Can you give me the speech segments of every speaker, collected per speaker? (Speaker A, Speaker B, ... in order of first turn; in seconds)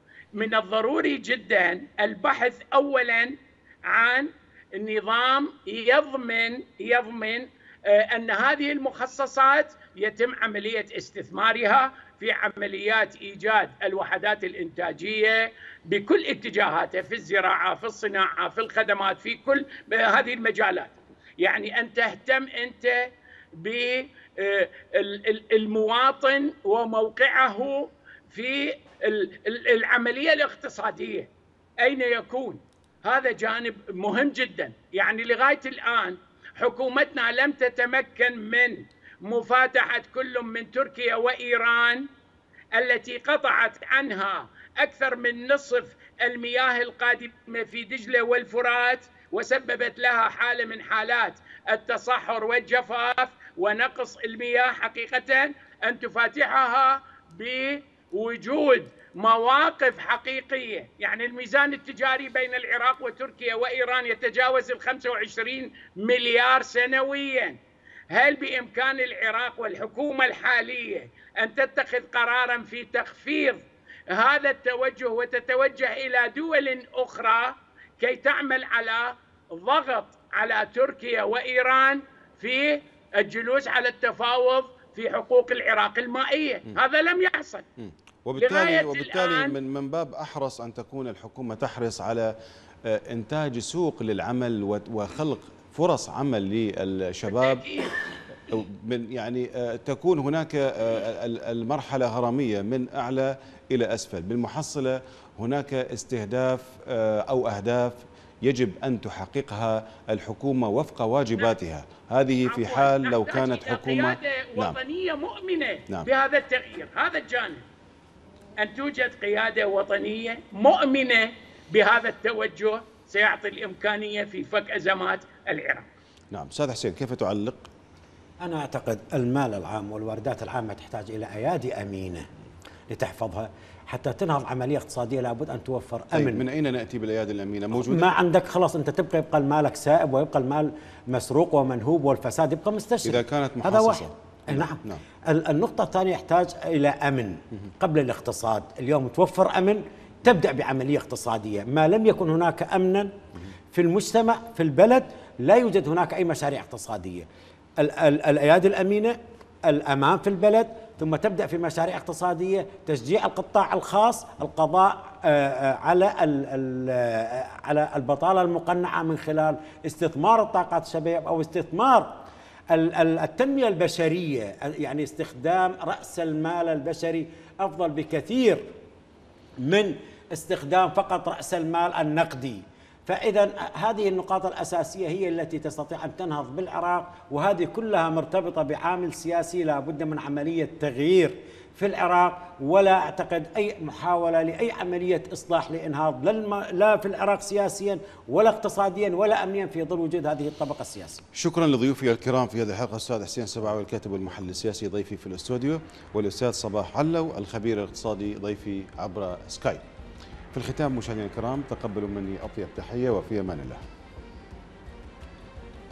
Speaker A: 0.3-42.0, 42.7-67.6, 68.1-87.6, 88.4-89.5, 97.3-98.0, 112.5-117.6, 118.6-125.8
Speaker B: 87.8-92.3, 92.8-97.7, 98.5-114.8, 126.3-127.7, 136.1-138.1, 143.0-145.0, 201.3-209.8, 210.5-213.8
Speaker C: 128.4-132.3, 132.9-136.4, 137.7-153.1, 153.7-178.7, 179.6-201.2